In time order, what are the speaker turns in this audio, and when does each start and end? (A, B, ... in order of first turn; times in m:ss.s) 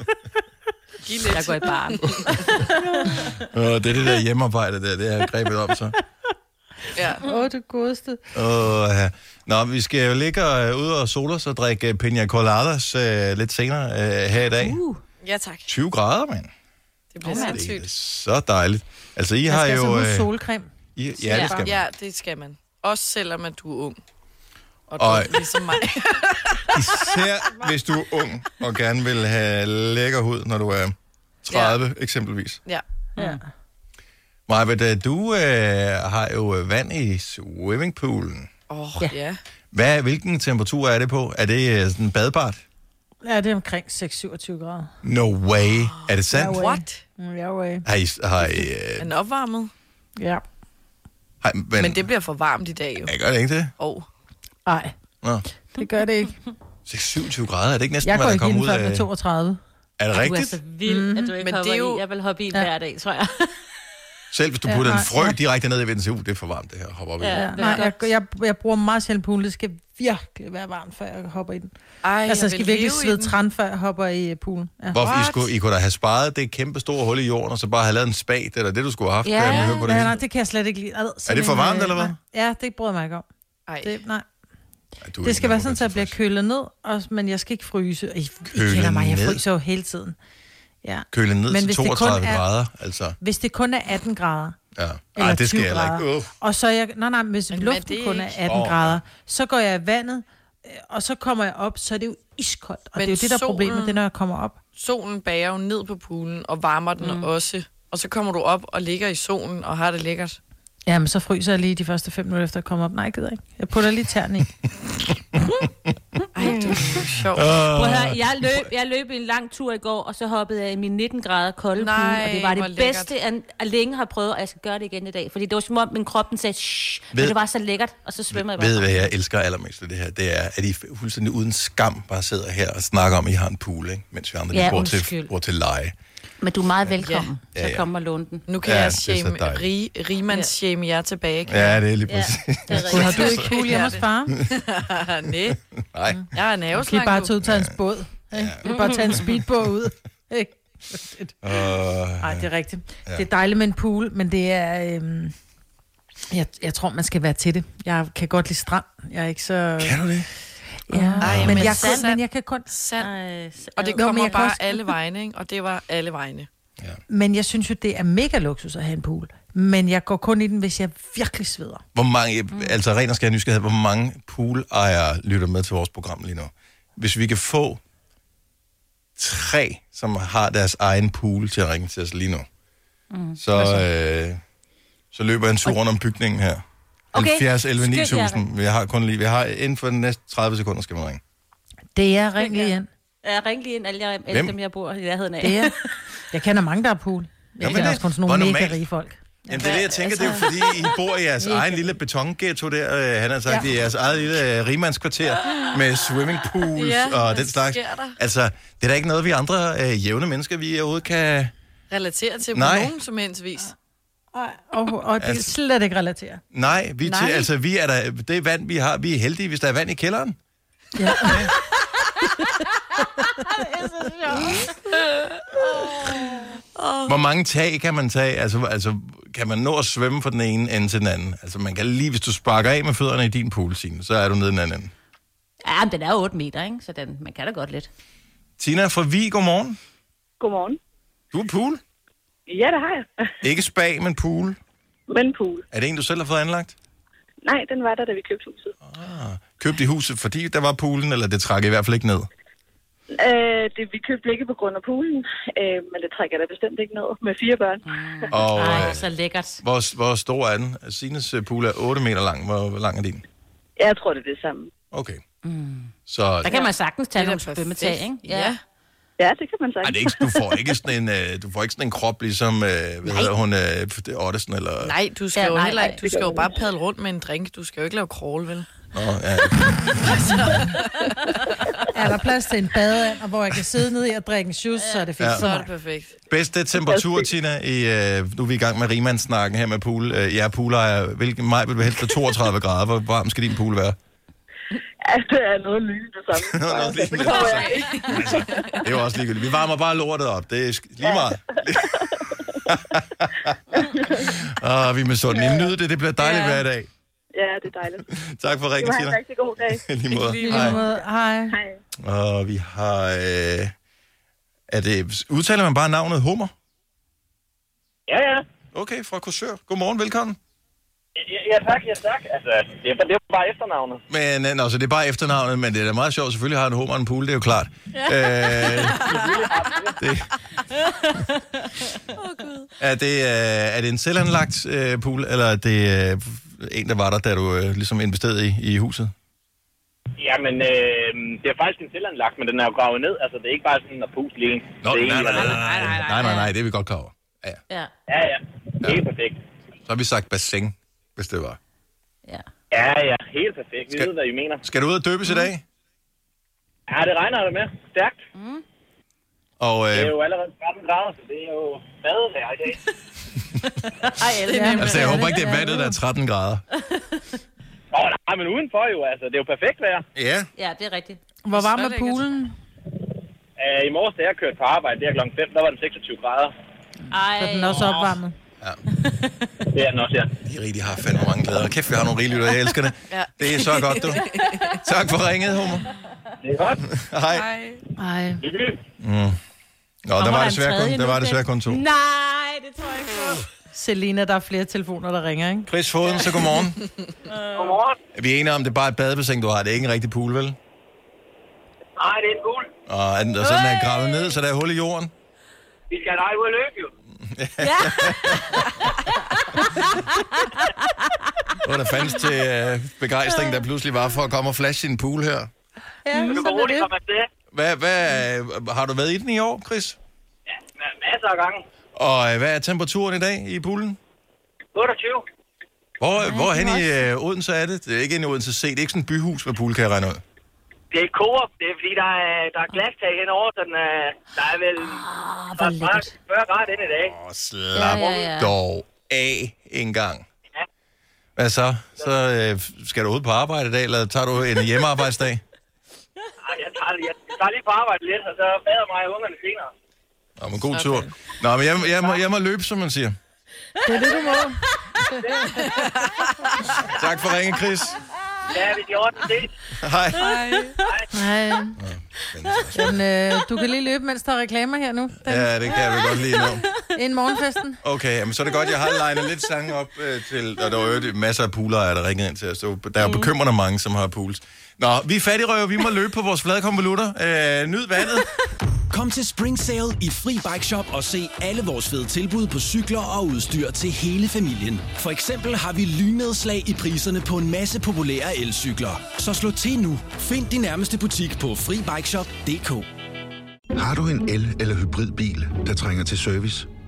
0:01.0-0:02.5 A
0:01.3-0:03.5 B
0:02.7-0:03.3 C
0:03.5-0:06.0 D
0:07.0-0:07.2 A
0:07.2-0:08.2 C
0:08.3-0:14.8 D
0:14.6-0:15.0 B
0:15.2-0:15.7 A
0:15.7-0:16.5 D
0:17.1-0:17.9 A
0:17.2-0:17.6 B
0:17.3-0:20.3 D
0:19.5-0:20.7 C
0:21.0-0:21.8 D
0:21.2-0:21.6 C
0:21.3-0:21.6 B
0:21.4-0:24.0 A
0:24.9-0:26.8 A
0:25.0-0:25.5 D
0:26.7-0:32.6 D
0:31.5-0:31.8 A
0:34.5-0:38.5 D
0:38.7-0:39.4 A
0:39.7-0:42.6 D
0:43.2-0:44.9 C
0:45.0-0:46.6 D
0:45.7-0:47.0 A
0:46.3-0:47.9 C
0:47.8-0:49.1 D
0:49.0-0:49.7 A
0:50.2-0:50.4 C
0:51.4-0:52.1 D
0:51.8-0:53.1 A
0:53.0-0:53.7 D
0:53.8-0:54.1 A
0:54.7-0:54.9 C
0:55.8-0:56.4 C
0:56.9-0:59.1 D
0:58.0-0:59.6 C
1:00.0-1:00.6 D
1:00.1-1:03.7 B
1:00.8-1:01.3 C
1:01.4-1:02.0 A
1:04.3-1:07.5 D
1:04.7-1:05.4 C
1:07.2-1:08.1 B
1:07.3-1:11.7 C
1:12.0-1:13.4 A
1:12.2-1:15.0 C
1:14.9-1:20.2 D
1:15.0-1:15.5 A
1:19.2-1:19.9 B
1:19.5-1:19.7 A
1:19.7-1:23.3 C
1:21.3-1:22.2 D
1:23.7-1:24.0 A
1:23.8-1:24.3 C
1:25.0-1:26.2 D
1:25.2-1:30.2 C
1:28.5-1:29.4 D
1:30.8-1:32.4 C
1:31.1-1:33.2 D
1:33.2-1:34.6 C
1:34.8-1:36.3 D
1:35.2-1:44.6 C
1:37.5-1:38.4 A
1:38.5-1:39.0 D
1:43.0-1:44.0 A
1:44.8-1:50.4 A
1:47.0-1:47.3 B
1:50.9-1:54.5 C
1:56.4-1:57.6 A
1:56.4-1:56.7 B
1:56.5-1:58.7 D
1:57.6-2:09.1 B
2:01.8-2:03.1 A
2:08.3-2:16.0 D
2:14.5-2:15.3 B
2:16.4-2:18.4 B
2:17.0-2:17.3 A
2:17.6-2:17.9 D
2:18.5-2:21.8 A
2:18.6-2:19.7 D
2:21.5-2:23.6 D
2:22.1-2:23.6 B
2:22.7-2:24.4 C
2:23.1-2:25.6 A
2:25.9-2:26.3 D
2:26.3-2:27.3 A
2:26.8-2:31.4 C
2:27.4-2:27.7 D
2:28.3-2:29.4 D
2:28.6-2:29.2 B
2:31.4-2:32.5 D
2:32.2-2:35.3 C
2:36.3-2:40.0 C
2:39.8-2:40.3 D
2:40.9-2:42.7 C
2:40.9-2:42.1 B
2:41.2-2:43.1 A
2:41.2-2:41.8 D
2:43.0-2:44.5 B
2:43.8-2:46.5 A
2:44.0-2:44.8 C
2:47.1-2:51.8 C
2:51.9-2:57.8 D
2:59.2-3:02.5 D
3:03.1-3:03.8 B
3:03.4-3:04.4 D
3:05.1-3:06.6 D
3:07.1-3:08.4 B
3:07.1-3:11.2 D
3:12.0-3:12.9 C
3:12.4-3:16.0 B
3:14.3-3:14.6 D
3:15.4-3:15.7 C
3:16.3-3:19.6 C
3:17.6-3:18.9 D
3:17.6-3:17.9 B
3:19.5-3:31.5 D
3:19.5-3:20.9 B
3:19.6-3:20.5 A
3:26.7-3:28.2 A
3:31.9-3:33.8 A
3:32.5-3:32.9 D
3:34.3-3:36.4 C
3:35.2-3:35.5 D
3:36.5-3:40.4 D
3:37.0-3:37.5 C
3:41.0-3:41.4 C
3:41.3-3:41.5 D
3:43.4-3:44.7 C
3:45.0-3:45.4 A
3:46.8-3:47.2 A
3:47.1-3:54.9 D
3:55.6-3:57.9 B
3:58.6-3:59.8 D
4:00.4-4:00.8 E
4:01.3-4:01.8 D
4:02.5-4:03.3 E
4:03.4-4:04.6 D
4:05.1-4:05.6 E
4:05.7-4:06.8 D
4:07.4-4:08.7 E
4:08.8-4:12.3 D
4:13.1-4:17.8 E
4:17.8-4:19.6 B
4:18.3-4:19.1 D
4:19.6-4:23.2 D
4:23.8-4:24.7 E
4:24.9-4:25.2 D
4:25.4-4:28.6 B
4:26.1-4:26.5 D
4:26.5-4:28.6 A
4:29.2-4:30.4 E
4:29.8-4:35.0 D
4:33.1-4:33.3 B
4:34.8-4:38.7 A
4:35.4-4:36.2 B
4:36.1-4:36.6 E
4:38.9-4:40.4 D
4:40.0-4:41.2 A
4:41.9-4:45.7 C
4:45.2-4:45.4 D
4:45.3-4:46.2 A
4:46.3-4:54.0 D
4:46.8-4:47.3 E
4:54.7-4:58.8 E
4:56.4-5:06.9 D
4:57.2-4:58.8 A
5:01.0-5:02.6 E
5:03.8-5:04.3 E
5:05.3-5:05.7 E
5:06.2-5:06.6 A
5:07.3-5:08.1 E
5:08.1-5:10.8 D
5:08.8-5:09.8 E
5:10.1-5:10.8 A
5:10.4-5:11.6 C
5:11.5-5:11.8 E
5:12.0-5:13.7 D
5:14.7-5:16.5 D
5:18.1-5:18.4 F
5:18.7-5:20.4 D
5:21.2-5:24.0 F
5:24.1-5:29.3 D
5:28.0-5:29.0 B
5:29.0-5:30.1 F
5:30.0-5:30.3 D
5:30.8-5:31.7 B
5:32.2-5:32.7 A
5:32.8-5:39.1 D
5:40.2-5:45.8 F
5:44.8-5:47.6 D
5:45.4-5:46.5 B
5:48.1-5:49.4 F
5:49.9-5:51.6 D
5:52.7-5:54.6 F
5:54.6-5:55.6 D
5:56.9-5:58.2 F
5:58.4-5:58.6 B
5:59.6-6:00.2 D
5:59.9-6:02.8 F
6:03.8-6:05.8 B
6:04.5-6:05.9 C
6:04.8-6:06.6 D
6:06.8-6:07.2 B
6:07.9-6:10.0 F
6:10.2-6:10.5 D
6:10.6-6:11.2 B
6:11.4-6:12.6 C
6:11.5-6:12.3 A
6:13.6-6:16.5 F
6:17.1-6:18.1 B
6:17.3-6:18.4 C
6:19.0-6:19.3 B
6:19.7-6:20.3 F
6:20.4-6:25.9 D
6:23.1-6:24.8 A
6:24.4-6:24.8 B
6:26.4-6:26.8 F
6:26.8-6:27.5 D
6:27.3-6:27.8 A
6:28.0-6:28.4 C
6:28.4-6:28.8 F
6:29.0-6:29.4 D
6:30.0-6:31.8 D
6:30.2-6:33.5 B
6:33.7-6:35.7 C
6:35.7-6:36.8 D
6:36.2-6:36.5 B
6:37.2-6:37.8 B
6:37.6-6:38.0 F
6:38.1-6:40.6 D
6:42.0-6:42.7 F
6:42.9-6:45.1 D
6:43.4-6:44.3 B
6:45.9-6:46.9 F
6:47.2-6:48.7 D
6:47.6-6:51.5 B
6:51.6-6:55.5 D
6:53.4-6:53.6 B
6:56.1-6:56.9 C
6:56.1-6:56.5 B
6:56.3-6:57.3 F
6:57.5-7:00.0 D
7:00.8-7:01.6 F
7:02.0-7:04.0 D
7:04.8-7:05.2 F
7:06.0-7:10.2 D
7:06.2-7:07.0 B
7:10.9-7:15.0 F
7:14.8-7:16.2 B
7:15.6-7:17.2 F
7:17.1-7:20.3 D
7:17.7-7:18.6 B
7:21.4-7:25.4 D
7:26.4-7:29.7 F
7:30.4-7:33.2 D
7:33.8-7:35.2 C
7:33.9-7:34.5 B
7:35.2-7:35.5 F
7:35.6-7:36.3 A
7:36.9-7:38.0 D
7:38.5-7:39.5 F
7:39.7-7:40.4 D
7:40.2-7:40.8 A
7:41.1-7:41.8 C
7:41.8-7:43.0 D
7:42.7-7:45.5 C
7:45.2-7:46.7 D
7:45.8-7:46.8 B
7:46.9-7:47.8 C
7:47.8-7:58.3 D
7:48.7-7:49.0 B
7:53.0-7:53.3 B
7:58.9-8:12.9 G
8:13.8-8:16.7 H